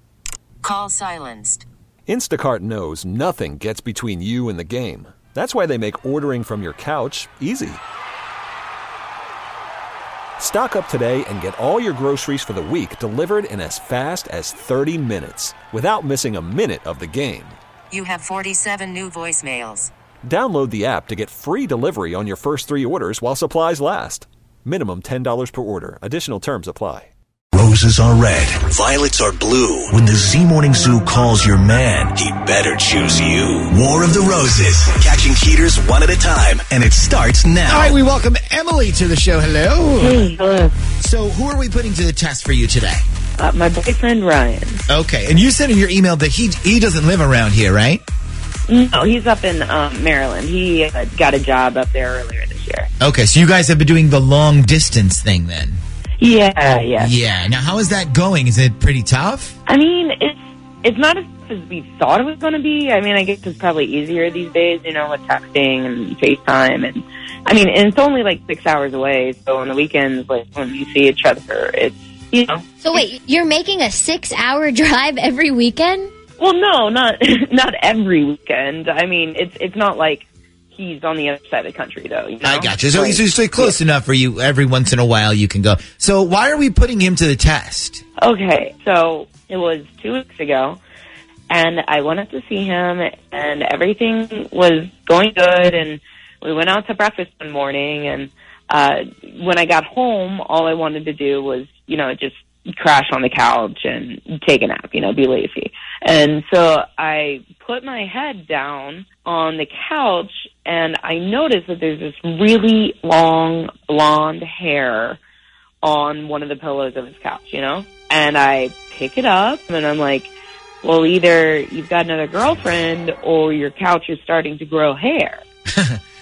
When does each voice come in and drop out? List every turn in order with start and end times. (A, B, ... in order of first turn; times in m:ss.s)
0:00.6-0:01.7 A
0:02.1-0:07.8 B
0:10.4-0:17.6 B
0:17.9-0:19.9 A
0:20.2-0:27.1 B
0:27.5-0:38.0 C
0:37.7-0:40.2 D
0:40.0-0:40.8 E
0:41.0-0:43.0 D
0:43.4-0:44.8 E
0:44.9-0:48.0 D
0:48.7-0:52.9 E
0:53.0-0:55.8 D
0:56.2-0:57.1 E
0:57.0-0:59.5 D
0:59.7-1:12.6 E
1:12.8-1:16.1 F
1:16.4-1:23.8 E
1:22.4-1:28.0 D
1:28.2-1:30.8 E
1:31.5-1:55.2 E
1:55.8-2:00.3 E
2:00.8-2:05.4 E